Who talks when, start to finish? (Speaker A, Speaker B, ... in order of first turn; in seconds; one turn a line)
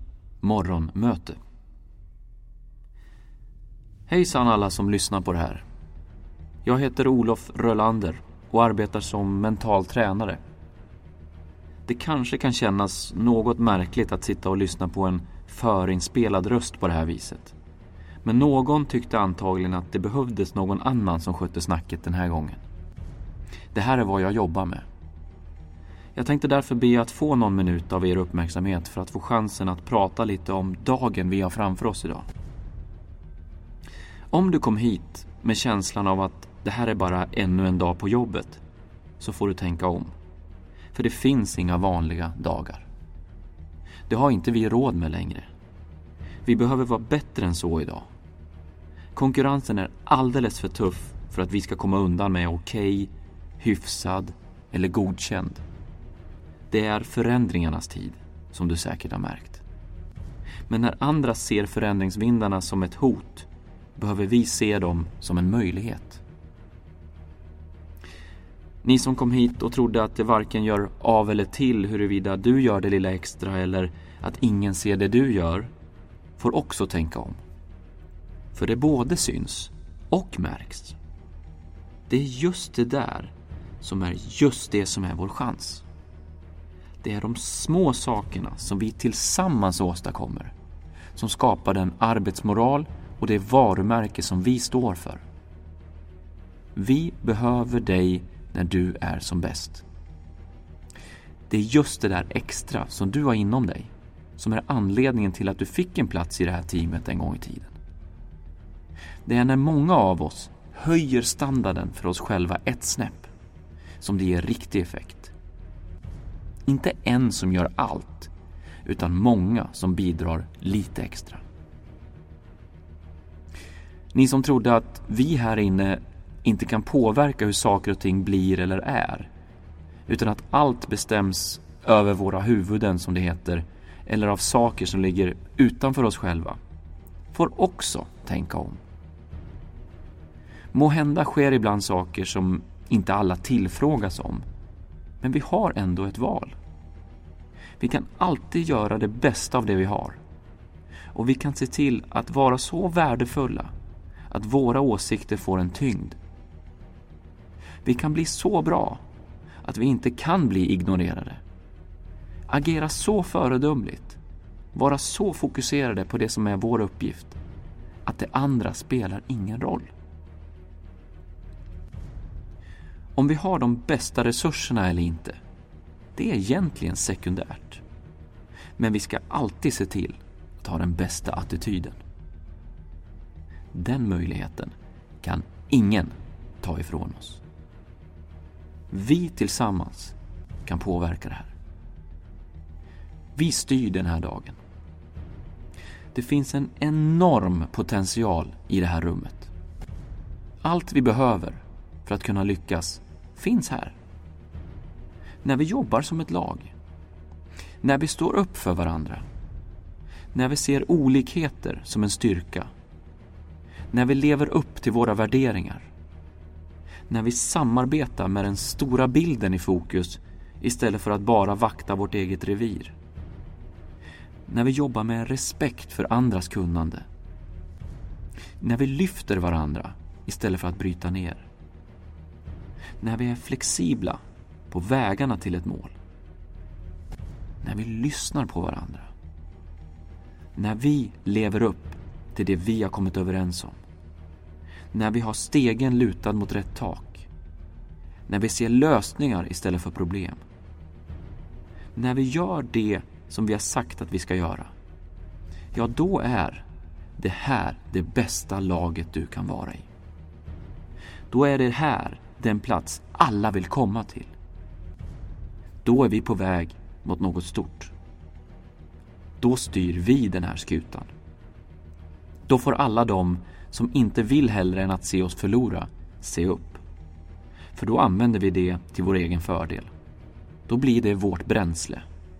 Speaker A: 0.4-1.4
Speaker A: 4.1-5.6
Speaker A: 6.6-10.4
Speaker A: 11.8-17.6
Speaker A: 18.2-22.6
Speaker A: 23.7-24.9
Speaker A: 26.1-32.3
Speaker A: 34.3-38.6
Speaker A: 39.2-40.1
Speaker A: 40.9-42.9
Speaker A: 44.1-45.5
Speaker A: 46.4-48.1
Speaker A: 49.1-55.6
Speaker A: 56.7-59.6
Speaker A: 60.7-66.2
Speaker A: 68.8-75.7
Speaker A: 76.4-77.4
Speaker A: 78.5-81.0
Speaker A: 82.1-85.8
Speaker A: 87.0-90.5
Speaker A: 91.1-95.2
Speaker A: 96.7-99.8
Speaker A: 101.5-107.7
Speaker A: 109.2-113.3
Speaker A: 114.0-115.3
Speaker A: 116.7-118.3
Speaker A: 118.8-121.4
Speaker A: 124.1-129.3
Speaker A: 130.1-136.6
Speaker A: 137.3-138.8
Speaker A: 140.7-144.4
Speaker A: 145.2-146.6
Speaker A: 147.8-150.2
Speaker A: 151.1-153.7
Speaker A: 154.3-156.2
Speaker A: 157.8-159.0
Speaker A: 159.6-161.4
Speaker A: 162.5-164.2
Speaker A: 164.7-167.4
Speaker A: 168.0-169.9
Speaker A: 173.1-175.4
Speaker A: 176.1-177.8
Speaker A: 178.8-182.0
Speaker A: 183.7-187.4
Speaker A: 188.9-191.5
Speaker A: 193.3-194.6
Speaker A: 196.1-199.5
Speaker A: 200.6-204.0
Speaker A: 205.4-206.7
Speaker A: 207.8-209.2
Speaker A: 210.3-212.7
Speaker A: 213.9-215.9
Speaker A: 217.1-222.9
Speaker A: 224.4-227.1
Speaker A: 228.6-231.5
Speaker A: 233.0-235.9
Speaker A: 237.6-239.1
Speaker A: 240.5-243.8
Speaker A: 244.9-247.3
Speaker A: 248.3-250.4
Speaker A: 251.9-254.7
Speaker A: 255.7-256.6
Speaker A: 257.2-259.9
Speaker A: 261.3-264.3
Speaker A: 265.8-267.9
Speaker A: 269.4-271.1
Speaker A: 272.5-276.8
Speaker A: 277.7-279.9
Speaker A: 280.7-282.0